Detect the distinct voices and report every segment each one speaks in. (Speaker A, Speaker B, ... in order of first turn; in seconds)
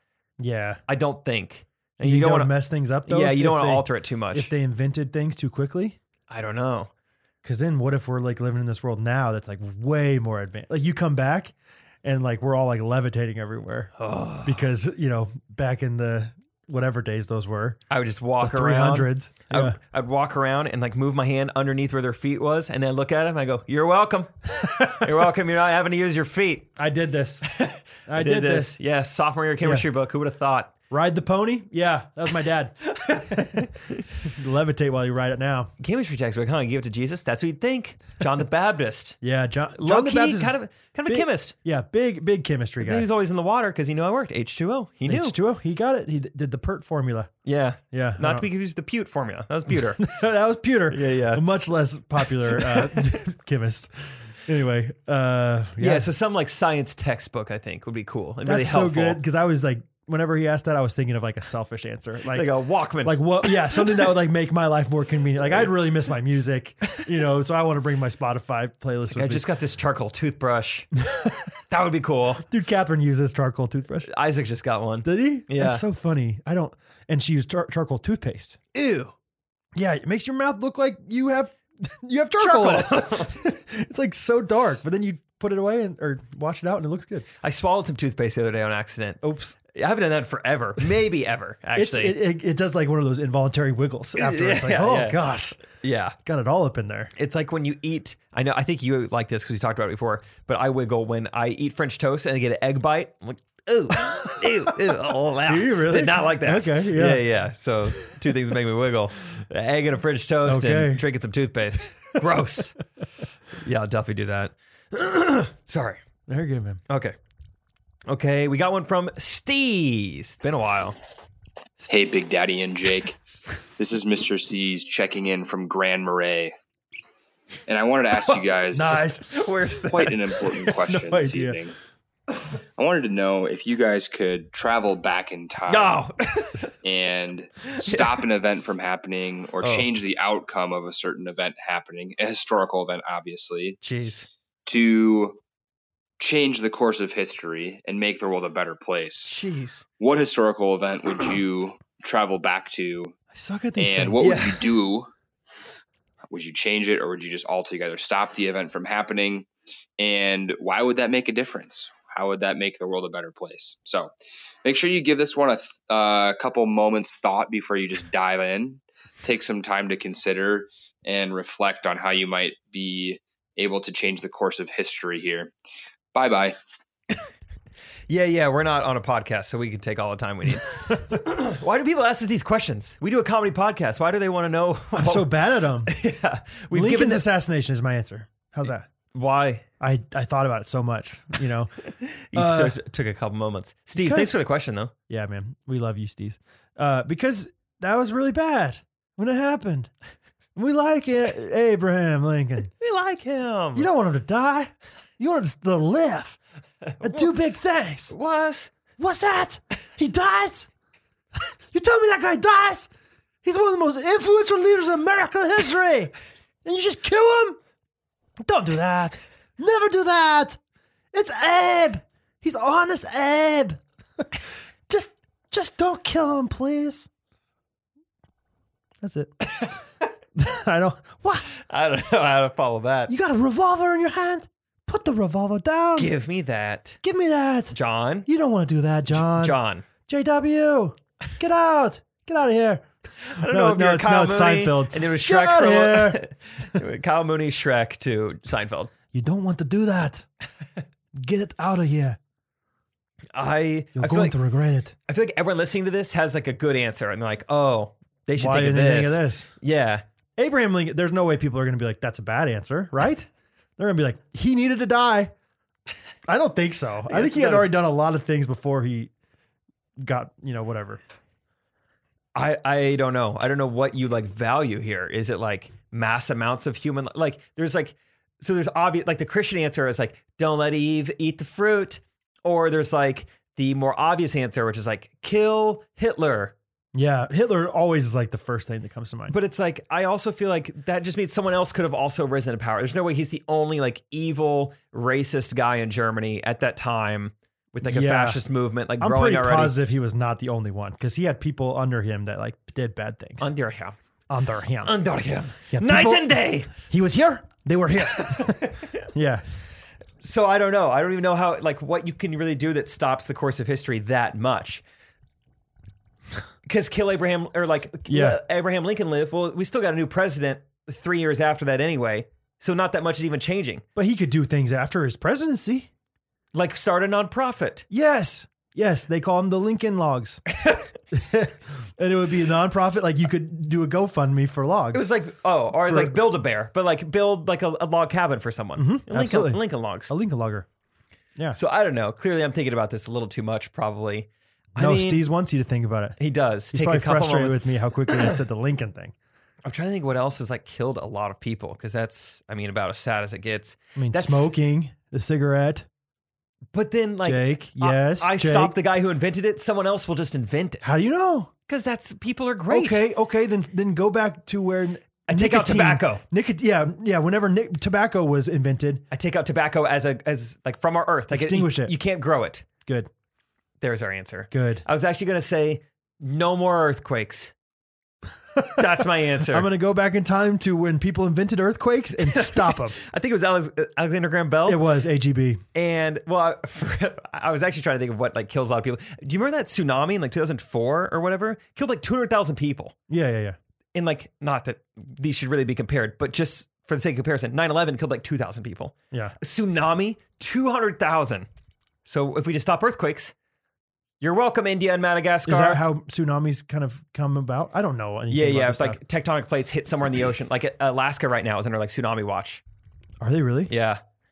Speaker A: 0.4-0.8, 2.0-6.0, 7.4-11.5, 12.0-13.9, 14.4-17.8, 18.4-19.8, 26.8-27.5, 28.1-28.8, 30.9-35.7, 39.2-43.1, 45.1-47.3, 47.9-48.5, 50.0-53.9, 54.5-56.1, 58.4-62.5, 63.0-69.5, 71.1-71.4, 72.5-74.1, 75.0-78.6, 79.8-87.3, 89.2-89.6, 91.8-95.6, 96.2-97.1, 105.5-107.3, 110.4-111.0, 116.3-116.8, 128.7-129.2, 130.7-131.6, 153.3-154.6, 184.9-185.9, 186.7-188.9, 189.8-191.7, 192.3-192.8, 194.0-194.3, 195.1-199.9, 200.6-202.7, 203.8-206.4, 207.0-208.2, 209.0-210.7, 211.7-212.9, 213.4-216.1, 216.7-217.6, 218.4-220.6, 221.1-224.2, 224.9-227.1, 229.0-229.3, 230.4-231.6, 233.1-236.1, 237.0-242.9, 243.4-246.2, 249.1-250.2, 251.2-252.2, 254.0-254.9, 258.4-259.5, 260.4-265.3, 266.3-269.1, 270.0-271.0, 286.9-289.4, 297.8-298.4, 299.0-303.5, 304.3-304.9, 305.7-309.4, 318.1-318.4, 324.0-325.9, 327.9-330.4, 331.1-335.1, 335.8-336.2, 338.8-340.7, 344.8-346.2, 346.7-349.1, 354.0-355.9, 357.2-358.8, 360.8-361.5, 362.7-369.1, 371.3-371.9, 374.5-374.9, 379.5-383.0, 384.7-385.6, 393.1-393.6, 405.5-409.0, 413.2-413.7
Speaker B: 0.9-2.5, 3.0-4.5, 6.3-6.9, 14.0-14.7, 17.9-26.7, 27.4-30.7, 33.0-34.0, 35.8-39.2, 39.8-41.5, 42.8-45.4, 47.5-50.1, 50.9-51.5, 52.2-53.1, 55.8-59.2, 62.3-64.0, 69.1-70.9, 71.7-72.5, 74.0-75.8, 78.7-79.2, 82.4-83.3, 87.4-92.2, 94.2-96.2, 97.2-112.8, 113.6-116.0, 116.9-117.2, 118.1-121.0, 129.3-130.3, 135.7-136.7, 137.8-138.2, 139.6-139.9, 143.8-144.3, 149.2-149.8, 154.2-154.5, 178.1-187.3, 189.1-189.7, 192.0-194.9, 202.8-203.9, 206.9-207.4, 208.1-208.7, 231.6-233.1, 236.0-237.0, 237.7-238.3, 239.1-239.8, 243.2-248.9, 253.3-254.4, 255.1-260.0, 267.1-267.8, 272.4-286.5, 289.3-299.8, 303.4-304.0, 304.8-306.7, 308.1-308.8, 310.2-314.8, 316.6-323.9, 326.5-327.9, 330.5-330.9, 334.9-340.1, 341.5-345.2, 346.2-348.4, 349.6-354.5, 356.7-360.8, 361.7-363.1, 365.3-366.2, 369.1-372.7, 373.8-377.5, 378.8-379.7, 382.2-384.9, 385.7-392.9, 393.9-401.5, 402.1-403.3, 404.2-405.8, 408.3-412.6, 413.7-414.0
Speaker C: 121.9-123.2, 123.8-126.5, 127.7-129.0, 129.9-131.8, 132.8-136.0, 136.8-143.8, 144.7-145.4, 146.2-149.4, 150.0-153.2, 153.8-155.1, 156.3-164.1, 164.6-175.5, 176.1-176.6